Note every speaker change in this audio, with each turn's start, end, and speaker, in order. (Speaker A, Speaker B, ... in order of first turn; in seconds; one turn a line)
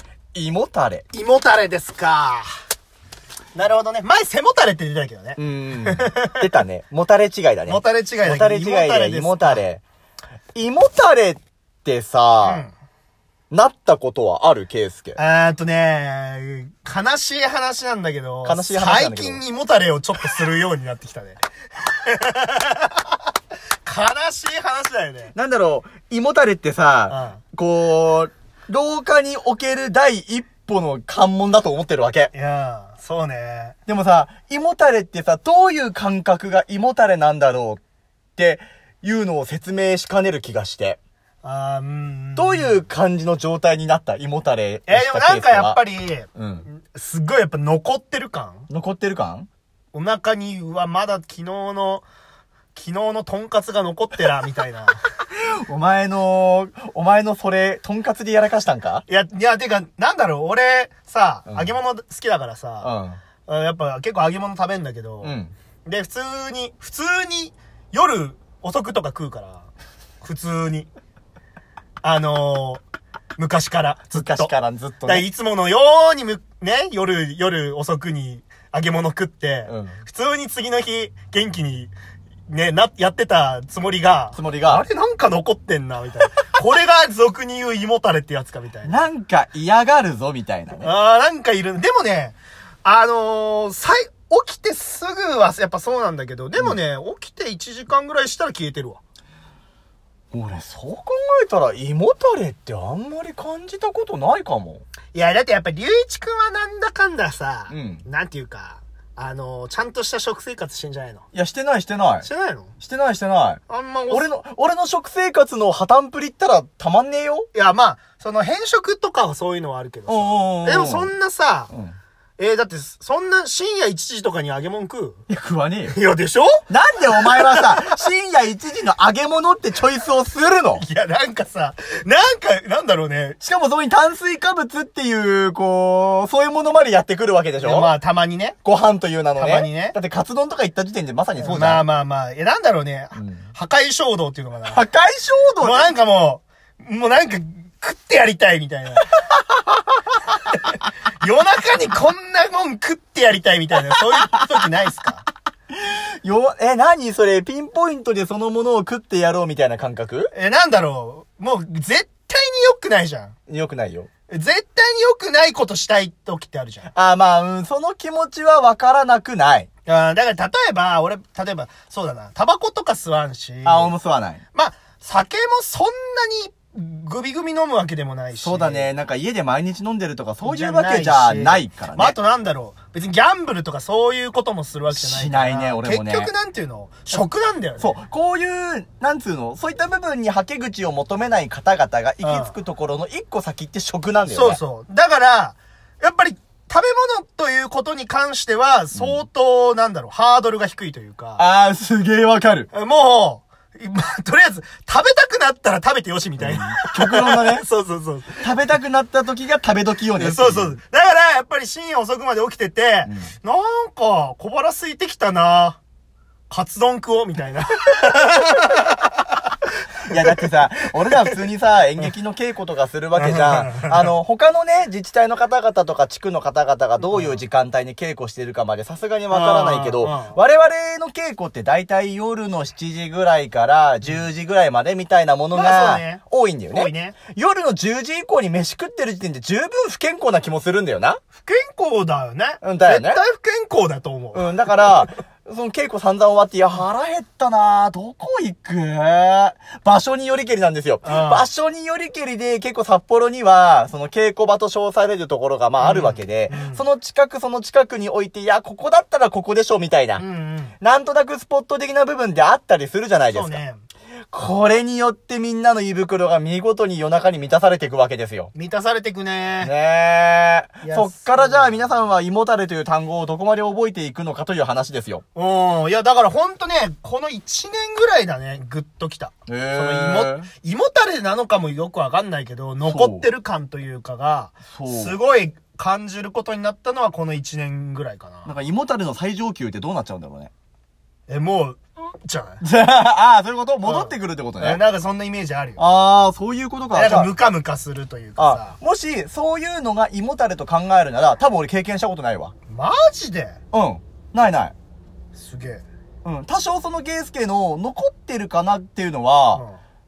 Speaker A: 0.3-1.1
Speaker B: 1.1-2.5
Speaker B: 3.5-6.4
Speaker A: 5.4-9.8
Speaker B: 7.7-9.6
Speaker A: 10.6-12.7
Speaker B: 12.4-12.7
Speaker A: 13.5-15.2
Speaker B: 15.2-23.2
Speaker A: 18.4-19.4
Speaker B: 23.9-25.3
Speaker A: 25.4-32.3
Speaker B: 27.1-27.4
Speaker B: 32.3-33.8
Speaker A: 33.9-37.8
Speaker A: 38.4-41.0
Speaker B: 41.4-42.8
Speaker A: 42.4-45.8
Speaker B: 44.9-48.7
Speaker A: 46.4-46.7
Speaker A: 48.7-49.5
Speaker B: 49.9-52.0
Speaker B: 52.8-55.0
Speaker A: 55.3-59.0
Speaker B: 59.1-62.9
Speaker A: 61.5-61.8
Speaker A: 62.8-63.2
Speaker B: 63.5-69.7
Speaker A: 65.2-65.5
Speaker B: 70.2-70.9
Speaker B: 72.0-72.8
Speaker B: 73.4-74.5
Speaker A: 74.1-75.3
Speaker B: 75.1-81.9
Speaker A: 79.7-80.0
Speaker B: 82.5-89.0
Speaker A: 84.4-84.8
Speaker A: 88.8-90.9
Speaker B: 90.8-99.0
Speaker A: 100.3-104.8
Speaker B: 105.1-111.2
Speaker A: 107.7-108.0
Speaker A: 111.3-112.3
Speaker B: 112.2-112.7
Speaker A: 112.8-117.5
Speaker B: 113.7-114.3
Speaker B: 117.5-121.7
Speaker A: 120.1-121.1
Speaker A: 121.7-122.0
Speaker B: 122.4-125.2
Speaker A: 125.3-126.0
Speaker B: 125.9-126.6
Speaker A: 126.7-130.8
Speaker B: 127.2-127.9
Speaker B: 130.8-133.4
Speaker A: 133.4-137.9
Speaker B: 137.6-138.6
Speaker A: 138.6-141.8
Speaker B: 139.4-140.0
Speaker B: 141.4-144.8
Speaker A: 143.2-143.5
Speaker A: 144.7-145.9
Speaker B: 145.6-149.1
Speaker A: 149.3-150.0
Speaker B: 150.5-155.3
Speaker A: 154.0-154.7
Speaker A: 155.7-160.3
Speaker B: 160.3-163.3
Speaker A: 163.5-164.1
Speaker B: 164.3-166.9
Speaker A: 166.9-169.7
Speaker B: 169.9-173.9
Speaker A: 173.7-174.4
Speaker B: 174.5-178.9
Speaker A: 178.4-182.2
Speaker B: 180.4-188.0
Speaker A: 184.9-186.3
Speaker A: 187.8-194.6
Speaker B: 192.2-192.6
Speaker B: 194.3-201.4
Speaker A: 198.9-199.2
Speaker A: 201.4-202.7
Speaker B: 202.7-208.5
Speaker A: 206.4-207.7
Speaker A: 208.4-210.8
Speaker B: 210.2-215.8
Speaker A: 213.1-213.3
Speaker B: 216.5-219.4
Speaker A: 220.1-241.2
Speaker B: 220.1-220.4
Speaker B: 223.2-224.1
Speaker B: 227.0-227.4
Speaker B: 229.3-230.4
Speaker B: 235.5-237.2
Speaker B: 241.4-244.6
Speaker A: 242.6-243.2
Speaker A: 244.3-260.2
Speaker B: 251.0-251.5
Speaker B: 255.8-256.8
Speaker B: 260.2-260.8
Speaker A: 260.8-263.6
Speaker B: 263.3-263.8
Speaker A: 264.3-268.5
Speaker B: 268.5-269.7
Speaker A: 269.6-275.2
Speaker B: 270.8-271.8
Speaker B: 275.4-288.5
Speaker A: 279.5-280.5
Speaker A: 282.9-283.3
Speaker A: 284.7-285.2
Speaker A: 288.4-290.5
Speaker B: 291.3-292.6
Speaker A: 292.6-294.8
Speaker B: 293.8-295.8
Speaker A: 295.8-297.3
Speaker B: 296.9-298.8
Speaker A: 298.4-302.5
Speaker B: 302.7-303.6
Speaker A: 303.7-304.7
Speaker B: 305.4-305.8
Speaker A: 306.2-309.6